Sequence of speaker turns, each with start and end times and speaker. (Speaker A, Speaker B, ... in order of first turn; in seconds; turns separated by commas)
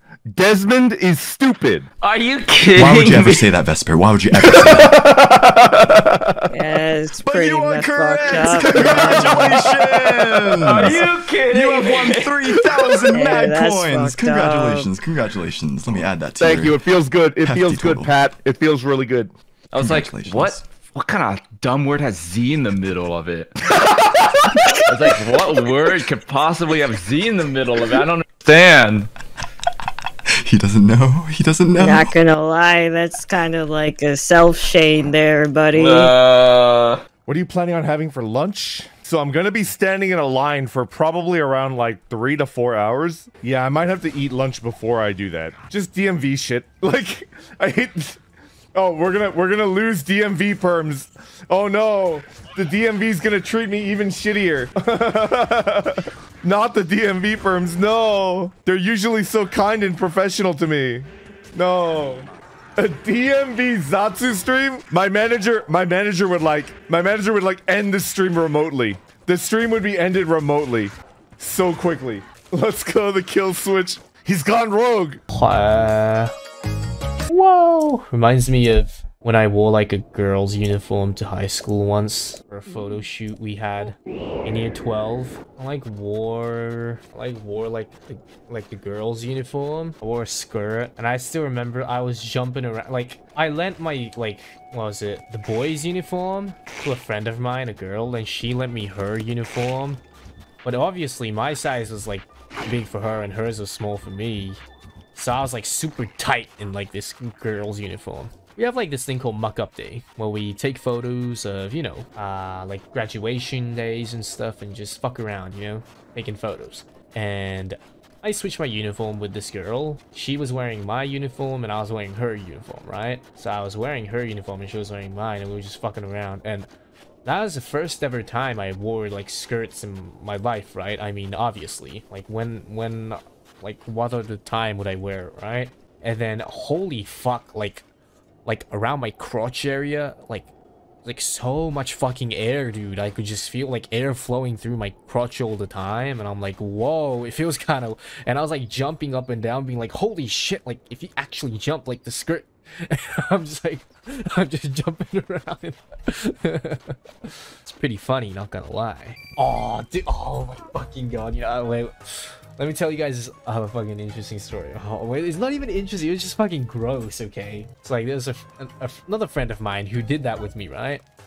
Speaker A: 0.3-1.9, Speaker B: 2.0-3.5, Speaker C: 2.7-5.1, Speaker A: 4.5-6.4, Speaker D: 6.5-9.8, Speaker C: 7.2-16.8, Speaker A: 7.8-10.9, Speaker B: 10.6-12.6, Speaker D: 13.0-14.9, Speaker A: 16.4-19.3, Speaker C: 17.4-18.1, Speaker B: 19.7-23.6, Speaker C: 19.8-20.6, Speaker B: 24.8-29.1, Speaker C: 30.3-32.1, Speaker D: 31.8-36.1, Speaker B: 35.7-37.0, Speaker A: 37.2-48.2, Speaker A: 48.7-75.2, Speaker E: 75.3-76.3, Speaker E: 77.3-100.0, Speaker E: 100.6-104.6, Speaker E: 105.1-126.7, Speaker E: 127.2-137.8, Speaker E: 138.4-140.5, Speaker E: 141.0-171.0